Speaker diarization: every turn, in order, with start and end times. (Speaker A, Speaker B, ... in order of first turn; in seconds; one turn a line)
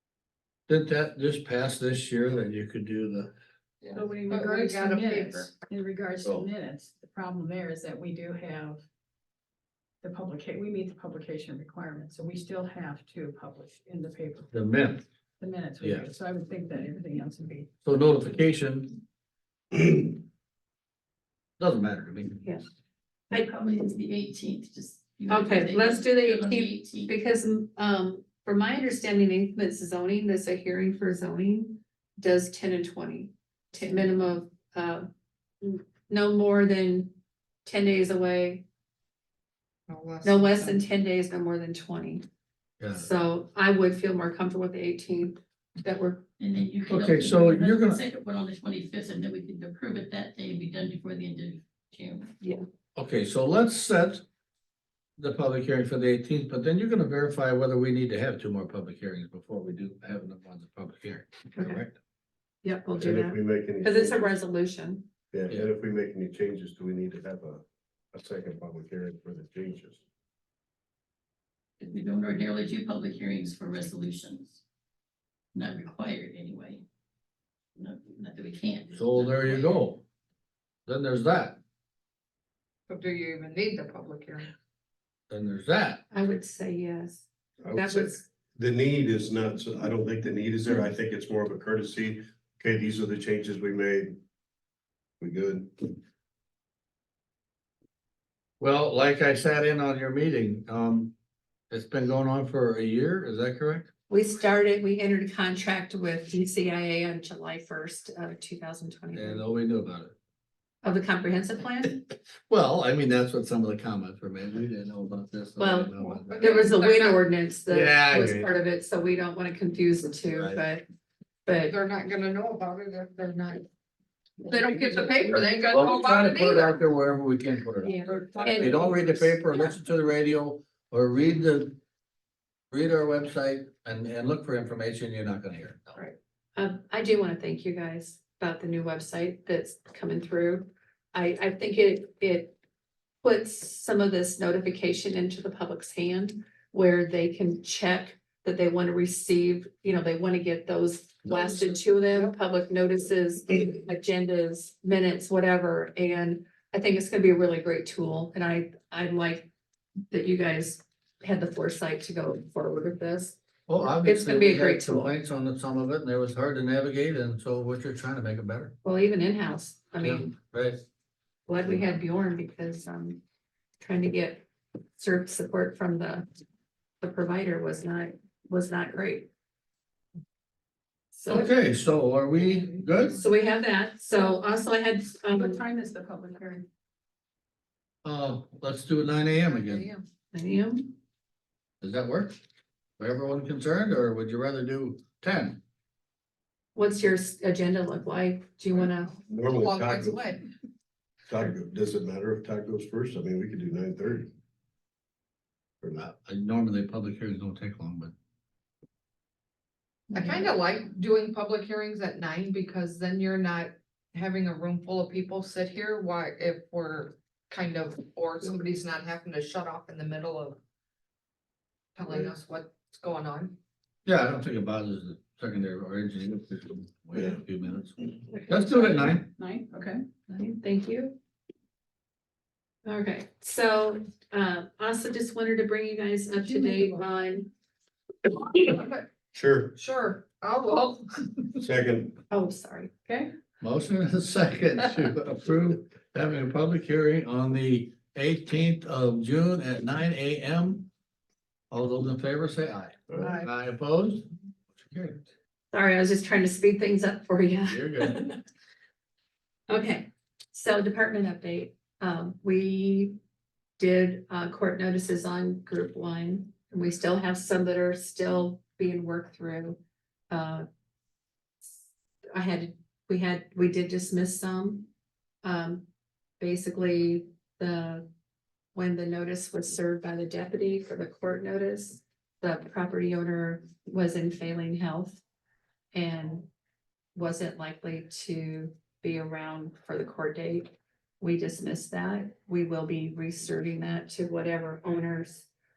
Speaker A: 0.7-3.3
Speaker B: 3.8-5.5
Speaker C: 3.9-8.8
Speaker C: 10.0-14.5
Speaker A: 14.5-15.0
Speaker C: 15.4-17.7
Speaker A: 15.8-16.1
Speaker A: 17.8-19.0
Speaker A: 21.6-22.4
Speaker D: 23.3-27.1
Speaker E: 25.3-35.0
Speaker E: 35.6-38.6
Speaker B: 39.9-40.8
Speaker E: 40.2-42.2
Speaker A: 42.8-43.1
Speaker E: 42.9-46.2
Speaker D: 46.4-52.3
Speaker A: 46.9-48.0
Speaker A: 53.0-54.2
Speaker A: 55.2-62.0
Speaker E: 61.5-61.8
Speaker E: 62.6-65.1
Speaker F: 63.0-64.3
Speaker F: 65.3-70.0
Speaker D: 71.8-74.6
Speaker D: 75.5-76.8
Speaker D: 77.8-79.8
Speaker A: 79.0-80.0
Speaker A: 80.8-81.6
Speaker B: 82.9-84.5
Speaker A: 85.3-86.0
Speaker E: 86.1-88.2
Speaker F: 87.6-94.2
Speaker F: 95.2-96.0
Speaker A: 98.6-101.1
Speaker A: 101.7-103.9
Speaker E: 104.1-109.5
Speaker A: 109.1-110.1
Speaker E: 110.8-112.0
Speaker A: 112.5-116.4
Speaker E: 115.6-120.8
Speaker B: 115.9-117.2
Speaker A: 117.7-118.5
Speaker A: 120.3-120.6
Speaker E: 121.5-121.7
Speaker B: 121.7-123.7
Speaker B: 124.4-126.8
Speaker A: 125.7-131.8
Speaker E: 127.8-128.7
Speaker B: 128.1-129.3
Speaker A: 132.7-135.9
Speaker E: 136.6-142.6
Speaker E: 143.2-159.5
Speaker E: 160.1-165.1
Speaker A: 163.7-168.7
Speaker E: 168.8-170.3
Speaker A: 170.0-170.8
Speaker E: 171.5-173.2
Speaker E: 173.8-174.4
Speaker E: 175.0-176.2
Speaker E: 177.0-179.3
Speaker E: 181.1-181.5
Speaker A: 181.2-183.2
Speaker E: 183.2-185.6
Speaker C: 185.3-186.7
Speaker A: 188.0-189.9
Speaker E: 190.3-190.9
Speaker A: 191.8-192.4
Speaker A: 193.0-195.6
Speaker E: 196.7-199.1
Speaker B: 198.9-200.4
Speaker F: 199.2-200.2
Speaker F: 201.3-204.3
Speaker A: 205.8-208.1
Speaker B: 210.1-220.6
Speaker B: 221.9-223.6
Speaker A: 224.1-229.3
Speaker E: 228.3-228.6
Speaker C: 229.0-230.0
Speaker E: 230.3-231.2
Speaker E: 232.8-237.5
Speaker B: 238.7-239.1
Speaker F: 239.3-239.7
Speaker B: 239.7-241.3
Speaker F: 241.6-242.2
Speaker E: 242.3-242.9
Speaker C: 243.1-243.3
Speaker A: 243.6-250.9
Speaker A: 251.7-255.3
Speaker E: 255.7-258.4
Speaker A: 257.7-258.2
Speaker E: 259.7-263.2
Speaker E: 263.8-269.8
Speaker E: 270.3-270.6
Speaker E: 272.3-274.9
Speaker E: 275.4-275.9
Speaker E: 276.4-278.1
Speaker E: 278.7-285.2
Speaker E: 285.9-286.5
Speaker E: 287.1-295.5